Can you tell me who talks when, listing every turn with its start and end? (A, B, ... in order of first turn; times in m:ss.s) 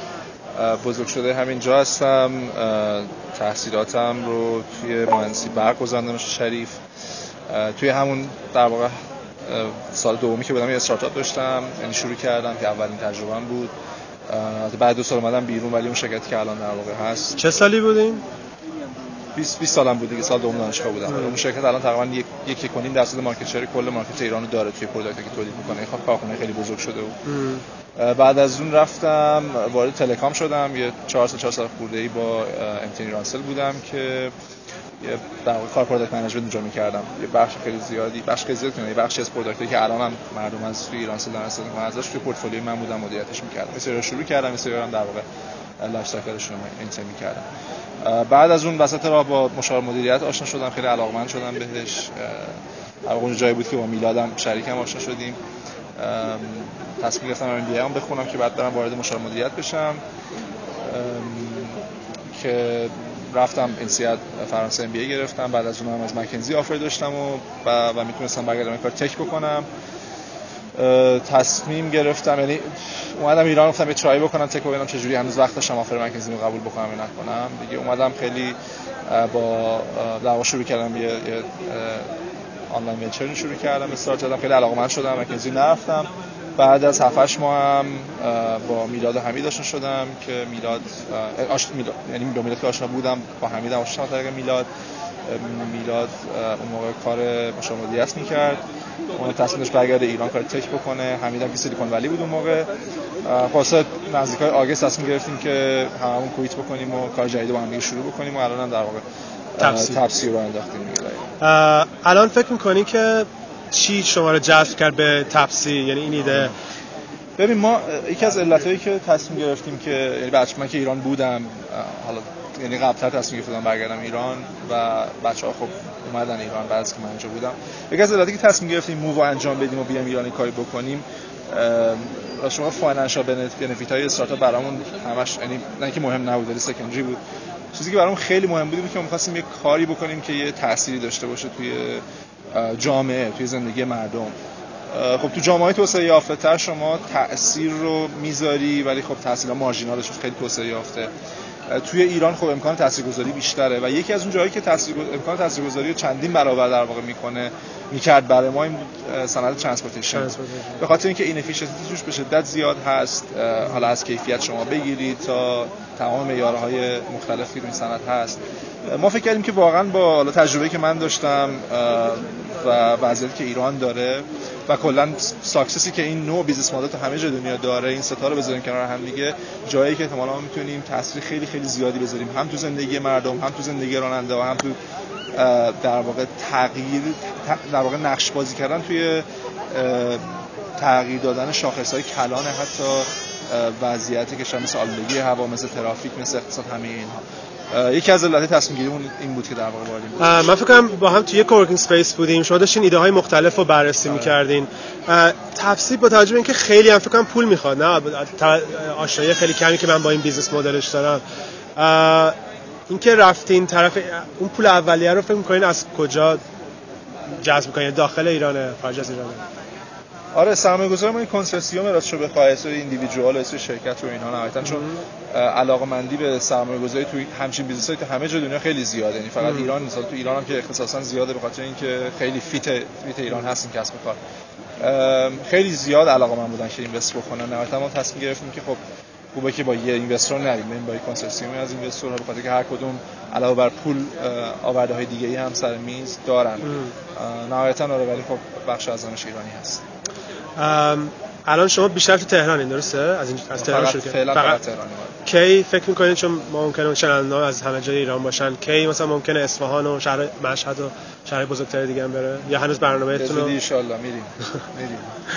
0:00.6-0:06.8 A
0:07.5-0:08.9 A
0:09.5-0:13.7 A
0:14.3-0:17.5 A
0:17.4-0:18.2 B
0:19.4-0:27.2 A
0:21.1-0:21.4 B
0:27.3-0:27.6 B
0:28.0-0:34.3 A
0:35.0-0:45.2 A
0:45.8-0:47.5 A
0:48.0-0:55.4 A
0:56.0-1:00.0 A
1:00.8-1:01.8 A
1:02.4-1:09.7 A
1:10.8-1:18.6 A
1:19.1-1:22.1 A
1:22.7-1:34.7 A
1:35.3-1:38.6 A
1:39.1-1:42.7 A
1:43.2-1:49.0 A
1:49.6-1:51.3 A
1:49.6-1:50.0 B
1:51.4-1:56.5 B
1:57.4-2:17.2 A
2:17.7-2:24.3 A
2:24.9-2:31.1 A
2:31.7-3:04.8 A
2:40.1-2:40.8 B
3:05.3-3:17.2 A
3:17.7-3:20.2 A
3:20.2-3:31.2 B
3:24.1-3:24.4 A
3:31.8-3:32.4 B
3:32.9-3:36.4 B
3:37.4-3:39.4 B
3:40.3-3:54.2 A
3:49.4-3:49.7 B
3:54.8-3:58.8 A
3:59.3-4:09.8 A
4:10.6-4:14.6 B
4:13.6-4:15.2 A
4:15.2-4:23.6 B
4:23.2-4:25.2 A